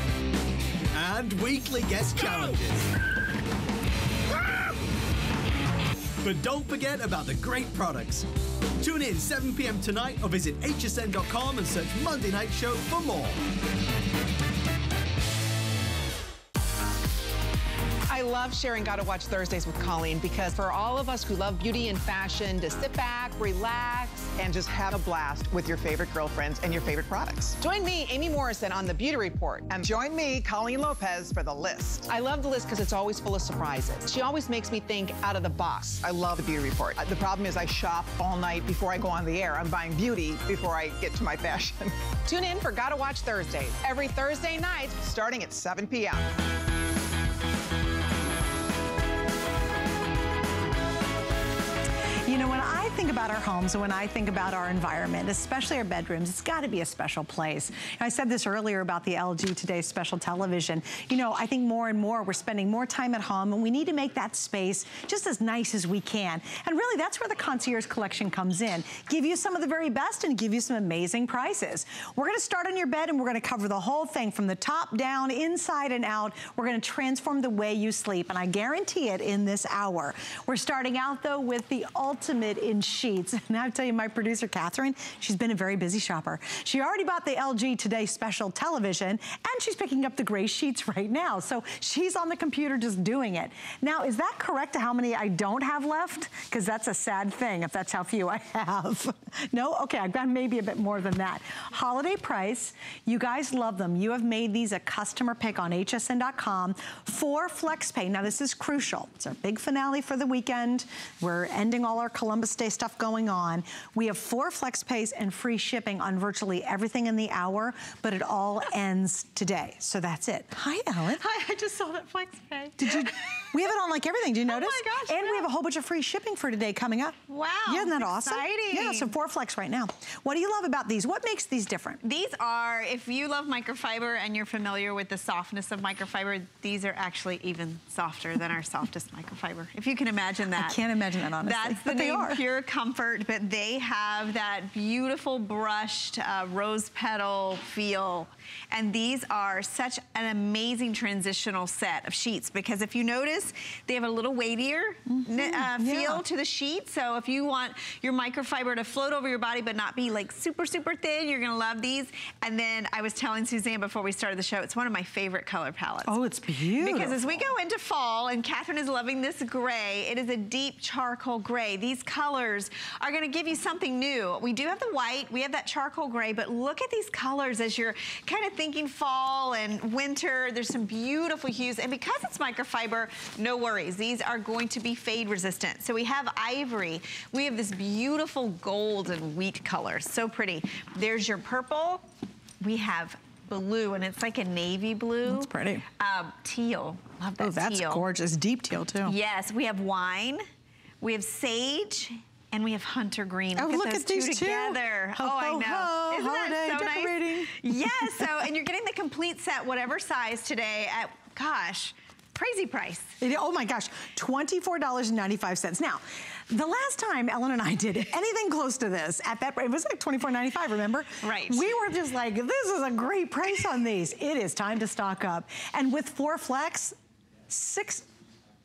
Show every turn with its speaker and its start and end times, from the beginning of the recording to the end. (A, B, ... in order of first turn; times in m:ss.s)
0:00.9-0:02.9 A
0:06.2-0:08.3 A
0:08.8-0:13.4 A
0:18.1-0:46.3 B
0:52.2-2:01.2 C
2:01.2-2:03.5 D
2:02.8-2:12.0 C
2:04.4-2:05.4 D
2:07.3-2:09.1 D
2:12.0-2:20.8 D
2:20.5-2:22.4 C
2:21.4-2:46.2 D
2:35.1-2:36.2 C
2:46.0-2:47.4 C
2:46.8-3:12.0 D
3:12.6-3:18.0 D
3:15.3-3:15.8 C
3:17.4-3:19.2 C
3:19.0-3:20.4 D
3:21.0-3:33.1 D
3:23.6-3:28.2 C
3:33.2-3:46.9 C
3:41.2-3:41.7 D
3:47.5-3:48.0 C